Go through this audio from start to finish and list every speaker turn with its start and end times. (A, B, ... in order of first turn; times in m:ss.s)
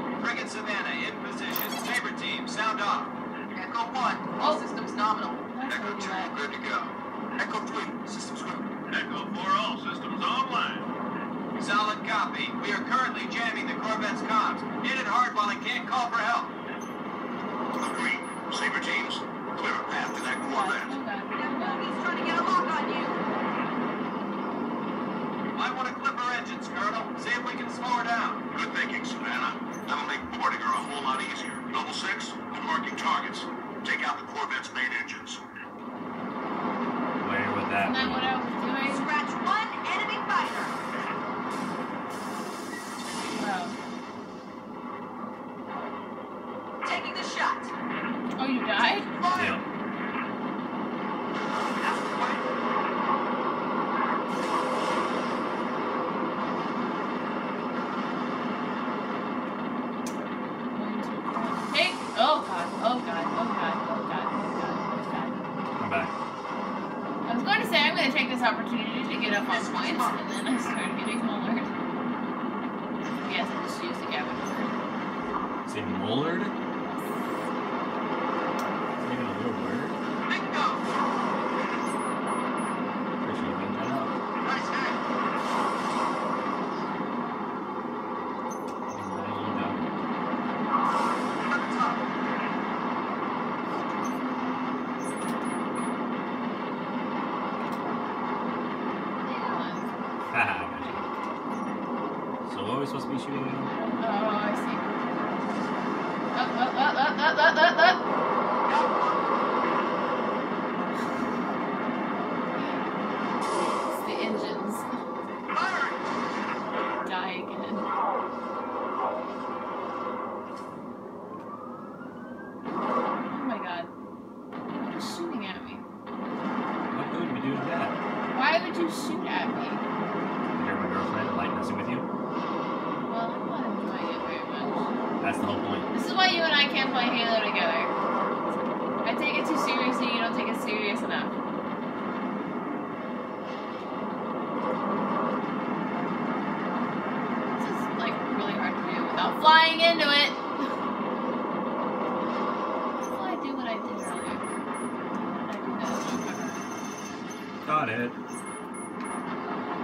0:00.2-0:04.8 A
0:04.4-0:04.6 B
0:04.4-0:05.4 C
0:05.5-0:06.3 B
0:05.7-0:06.8 A
0:07.4-0:08.7 A
0:11.6-0:16.5 A
0:17.8-0:21.0 D
0:20.4-0:22.0 B
0:21.3-0:23.2 C
0:25.6-0:28.4 A
0:28.5-0:35.4 D
0:37.2-0:38.3 E
0:37.8-0:39.1 B
0:38.8-0:40.8 C
0:43.4-0:43.8 B
0:46.8-0:47.7 C
0:48.4-0:49.1 B
0:49.2-0:49.6 C
0:49.4-0:49.6 E
0:51.8-0:52.4 A
1:00.7-1:05.4 B
1:05.8-1:06.1 E
1:07.2-1:11.7 B
1:09.4-1:10.2 A
1:13.2-1:14.8 B
1:15.7-1:16.5 E
1:16.9-1:17.2 B
1:19.0-1:19.9 E
1:20.3-1:20.8 A
1:23.2-1:24.1 E
1:24.4-1:25.0 A
1:28.9-1:29.9 E
1:31.5-1:32.0 A
1:39.2-1:39.9 B
1:40.3-1:41.0 E
1:42.5-1:43.7 E
1:43.8-1:45.0 B
1:46.3-1:48.0 B
1:48.7-1:49.2 A
1:52.5-1:52.9 B
1:54.0-1:54.9 B
1:55.5-1:56.0 A
1:57.0-1:57.8 B
2:03.3-2:03.9 B
2:04.8-2:05.8 B
2:06.9-2:07.9 E
2:08.3-2:09.8 B
2:10.5-2:12.0 E
2:13.0-2:14.9 B
2:15.2-2:15.9 E
2:15.9-2:17.9 B
2:19.0-2:21.4 B
2:27.6-2:30.4 B
2:33.0-2:34.4 B
2:35.1-2:36.7 B
2:37.6-2:38.1 E